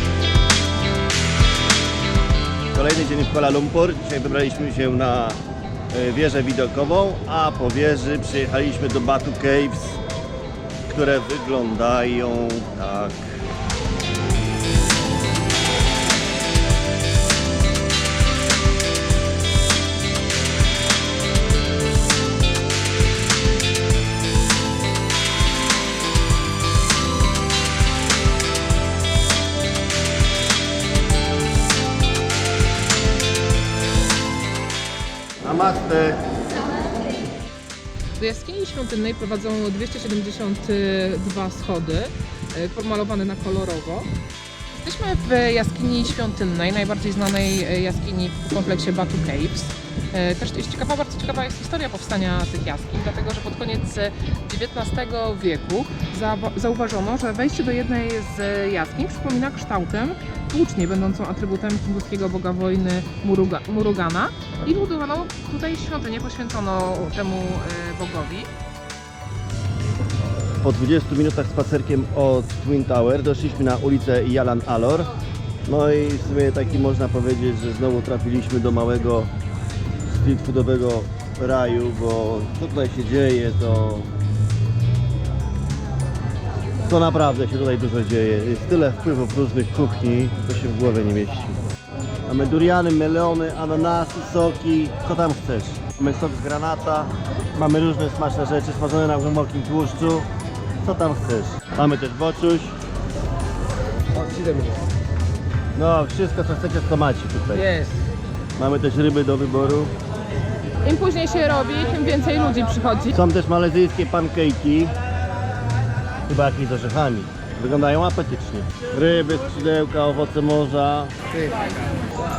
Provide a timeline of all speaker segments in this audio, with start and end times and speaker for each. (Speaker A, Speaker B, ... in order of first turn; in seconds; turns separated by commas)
Speaker A: 2.7-5.4, Speaker A: 5.9-10.0, Speaker A: 10.9-13.4, Speaker A: 35.4-36.2, Speaker B: 38.2-44.1, Speaker B: 44.7-68.5, Speaker A: 70.6-75.1, Speaker A: 75.7-79.3, Speaker A: 80.0-84.1, Speaker A: 86.8-91.6, Speaker A: 92.3-100.3, Speaker A: 100.8-102.8, Speaker A: 105.8-107.7, Speaker B: 107.6-107.9, Speaker A: 108.6-109.9, Speaker B: 110.8-113.1, Speaker A: 113.1-114.9, Speaker A: 116.3-121.1